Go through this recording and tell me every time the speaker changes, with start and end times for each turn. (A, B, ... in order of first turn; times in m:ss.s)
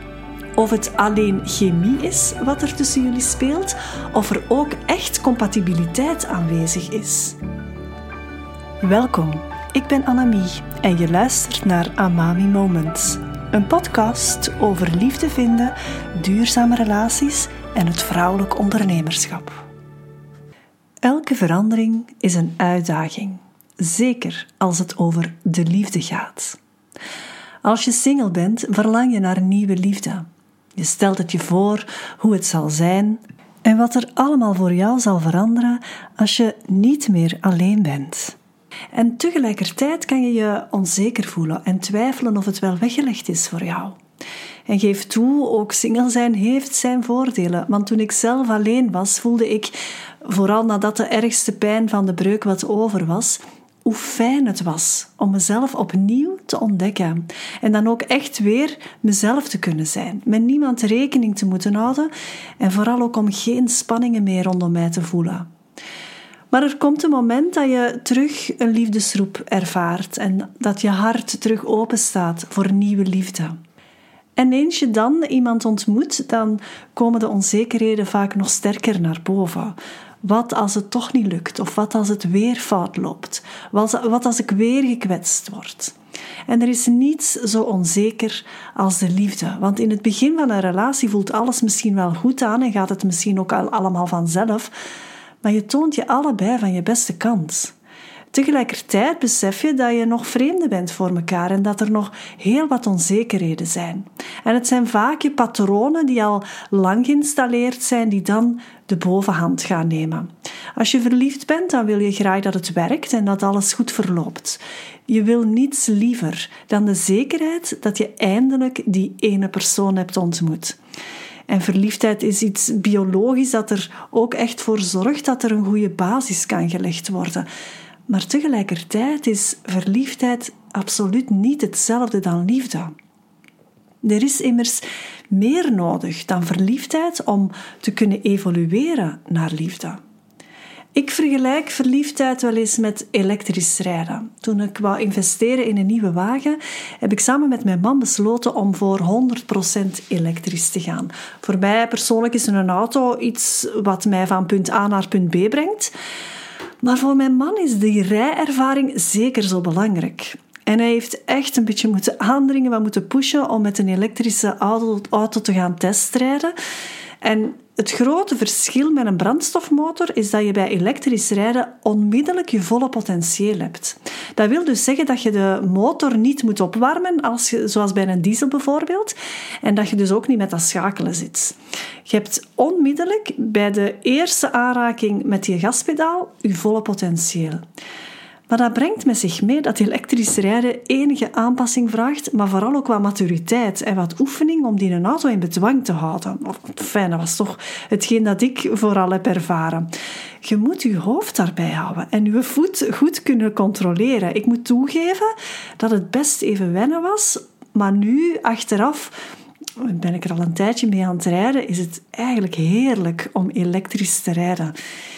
0:00.6-0:07.4 A
0:08.8-0:19.6 A
0:21.0-0:26.6 A
0:27.6-0:30.2 A
0:30.8-0:38.4 A
0:38.9-0:44.0 A
0:44.7-1:05.5 A
1:06.5-1:13.6 A
1:14.4-1:25.9 A
1:26.5-1:34.7 A
1:35.4-1:37.7 A
1:38.3-2:00.8 A
2:01.5-2:07.5 A
2:08.1-2:12.9 A
2:14.0-2:20.0 A
2:20.9-2:35.9 A
2:36.8-2:46.5 A
2:47.2-3:07.6 A
3:08.5-3:19.9 A
3:20.4-3:29.1 A
3:29.8-3:34.7 A